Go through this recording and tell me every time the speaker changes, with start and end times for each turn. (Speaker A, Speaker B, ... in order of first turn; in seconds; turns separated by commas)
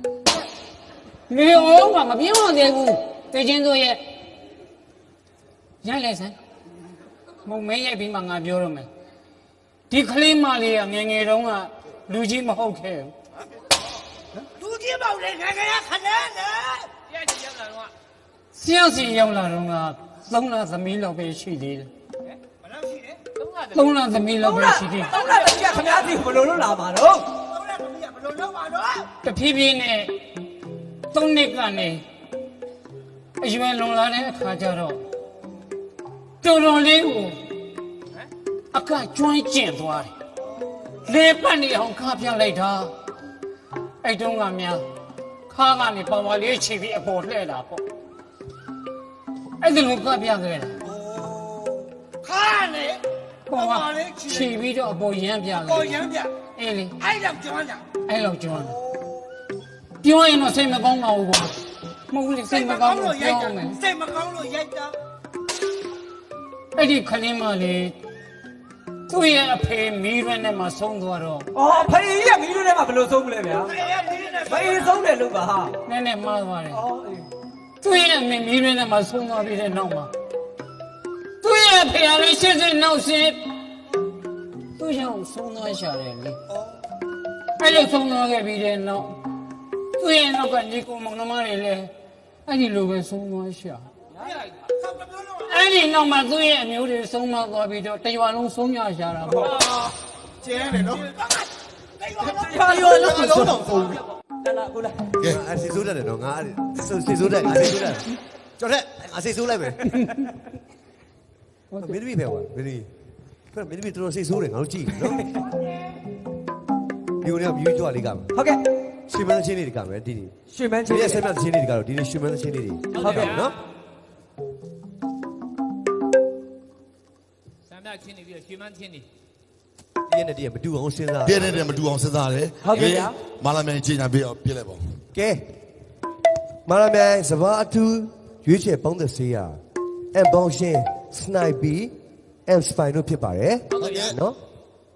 Speaker A: 1.3-4.0, Speaker A: 5.8-6.3, Speaker A: 7.5-8.9, Speaker A: 9.9-13.1, Speaker B: 14.5-16.9, Speaker A: 18.5-21.9, Speaker B: 22.6-23.1, Speaker C: 23.4-23.8, Speaker A: 23.7-25.1, Speaker D: 24.4-27.2, Speaker B: 27.6-29.1, Speaker A: 29.2-30.1, Speaker A: 31.1-32.0, Speaker A: 33.4-35.0, Speaker A: 36.4-37.4, Speaker A: 38.7-40.1, Speaker A: 41.0-42.9, Speaker A: 44.0-44.8, Speaker A: 45.5-47.8, Speaker A: 49.6-50.8, Speaker B: 50.9-51.7, Speaker B: 52.2-53.0, Speaker B: 53.5-54.6, Speaker A: 53.5-55.9, Speaker B: 55.5-56.3, Speaker A: 56.6-56.9, Speaker B: 57.0-57.9, Speaker A: 58.0-58.7, Speaker A: 60.0-61.6, Speaker A: 62.1-63.8, Speaker B: 62.5-64.9, Speaker A: 66.7-67.9, Speaker A: 69.1-71.5, Speaker D: 71.5-73.7, Speaker B: 73.7-75.0, Speaker D: 74.5-75.8, Speaker A: 75.8-76.8, Speaker D: 76.7-77.2, Speaker A: 77.8-80.1, Speaker A: 81.4-83.4, Speaker A: 84.8-86.4, Speaker A: 87.6-89.2, Speaker A: 90.0-91.9, Speaker A: 92.5-93.9, Speaker A: 95.5-99.5, Speaker D: 102.2-105.0, Speaker E: 105.3-108.0, Speaker E: 108.6-109.8, Speaker E: 111.8-112.9, Speaker E: 113.5-115.2, Speaker E: 117.2-118.3, Speaker D: 118.3-118.6, Speaker E: 119.1-120.3, Speaker D: 120.5-121.2, Speaker E: 120.8-123.5, Speaker C: 123.0-123.5, Speaker D: 123.0-123.3, Speaker C: 127.7-129.0, Speaker E: 130.1-131.7, Speaker F: 131.2-134.9, Speaker D: 132.6-133.1, Speaker E: 135.1-135.5, Speaker E: 136.7-139.6, Speaker E: 140.1-141.9, Speaker E: 142.5-144.4, Speaker C: 143.8-144.1